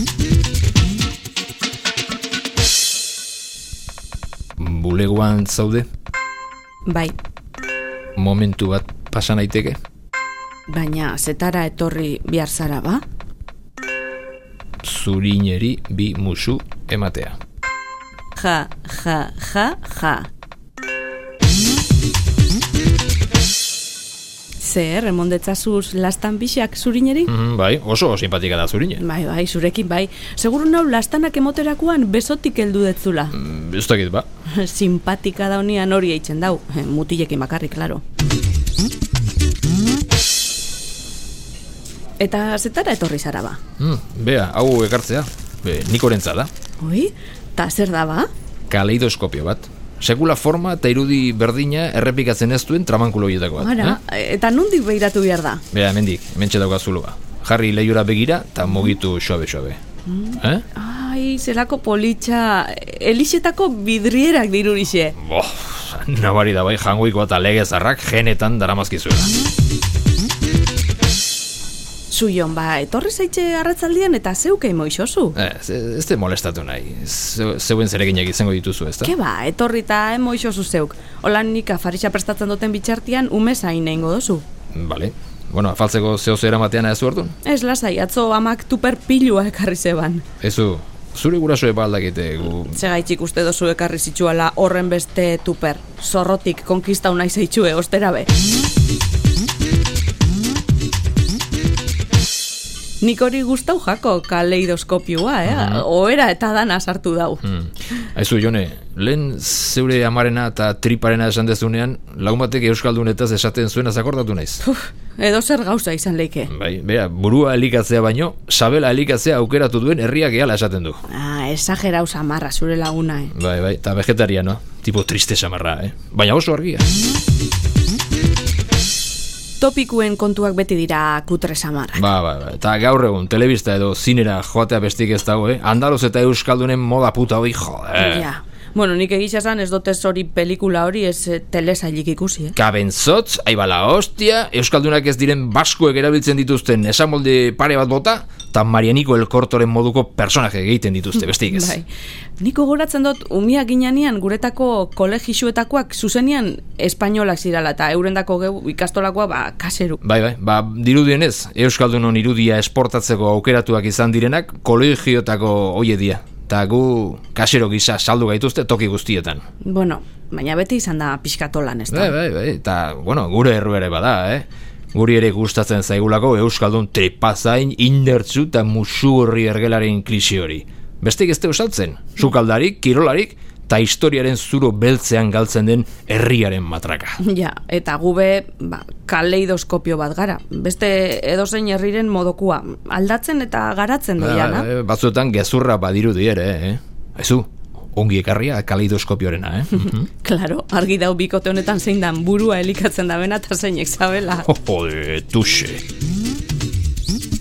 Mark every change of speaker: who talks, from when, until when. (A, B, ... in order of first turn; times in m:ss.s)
0:04.6-0:05.9 A
0:06.9-0:07.2 B
0:08.2-0:09.8 A
0:10.7-0:13.0 B
0:14.8-0:17.4 A
0:18.4-0:20.3 B
0:24.6-0:27.3 B
0:27.3-0:29.0 A
0:29.0-0:33.4 B
0:33.3-0:34.3 A
0:34.5-0:38.0 B
0:42.2-0:43.6 B
0:43.8-0:46.5 A
0:46.8-0:48.3 B
0:48.7-0:54.0 A
0:53.6-0:55.6 B
0:55.7-0:59.8 A
1:00.1-1:05.2 B
1:00.4-1:00.6 A
1:05.2-1:09.3 A
1:12.1-1:15.4 B
1:15.4-1:19.1 A
1:19.0-1:24.4 B
1:24.7-1:27.3 A
1:27.4-1:30.2 B
1:30.4-1:32.8 A
1:32.6-1:38.3 B
1:43.0-1:47.4 B
1:45.5-1:45.8 A
1:47.4-1:54.6 A
1:54.6-1:56.5 B
1:56.5-2:01.0 A
2:01.1-2:03.3 B
2:03.3-2:06.9 A
2:09.6-2:12.1 B
2:12.0-2:18.3 A
2:18.0-2:22.6 B
2:22.6-2:31.8 A
2:31.2-2:31.9 B
2:32.4-2:40.0 B
2:40.0-2:49.4 A
2:49.6-2:52.2 B
2:51.9-3:07.2 A
3:07.2-3:14.7 B
3:14.2-3:20.1 A
3:20.1-3:24.5 B
3:24.4-3:25.8 A